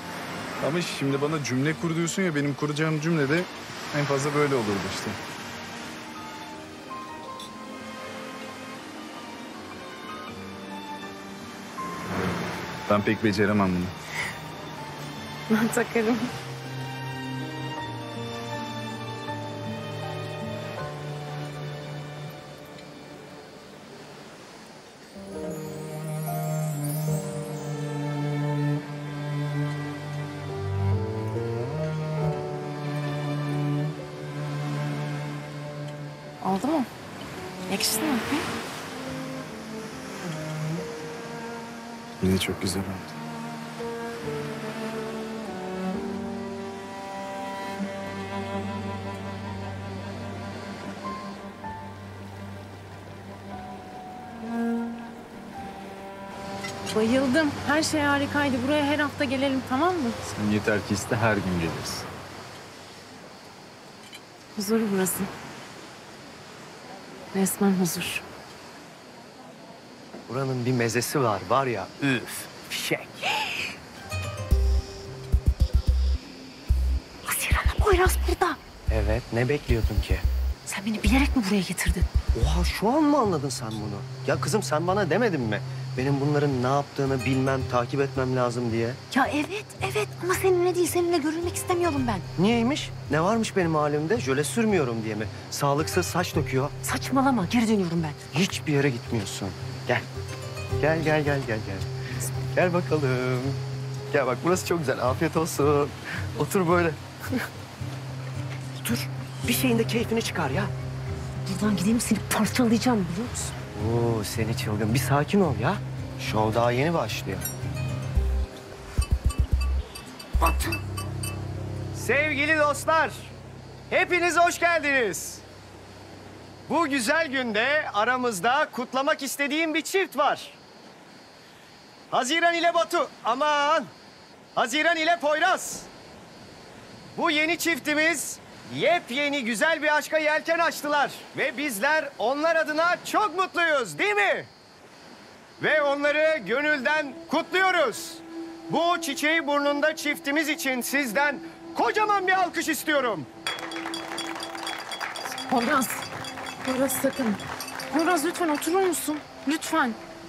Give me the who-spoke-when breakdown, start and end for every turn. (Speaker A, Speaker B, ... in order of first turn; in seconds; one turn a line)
Speaker A: 0.6-5.2
Speaker A: 12.9-13.9
Speaker B: 15.5-16.3
Speaker B: 36.4-36.9
Speaker B: 37.7-38.5
Speaker A: 42.2-43.1
Speaker B: 56.9-60.2
Speaker A: 60.3-62.0
Speaker B: 64.5-65.3
Speaker B: 67.3-68.2
Speaker C: 70.3-73.3
Speaker D: 77.3-78.6
Speaker C: 78.9-80.2
Speaker D: 80.7-82.0
Speaker C: 82.3-89.0
Speaker D: 89.1-92.2
Speaker C: 92.4-96.7
Speaker D: 96.8-98.2
Speaker C: 98.3-100.0
Speaker C: 100.8-103.6
Speaker C: 104.1-107.0
Speaker C: 108.8-110.7
Speaker D: 111.5-113.5
Speaker C: 113.7-117.5
Speaker C: 122.0-123.3
Speaker C: 123.9-125.4
Speaker C: 126.7-130.6
Speaker C: 132.1-133.9
Speaker C: 134.6-135.9
Speaker C: 137.2-144.5
Speaker C: 145.6-153.3
Speaker B: 155.5-156.0
Speaker B: 156.6-157.4
Speaker B: 157.9-160.0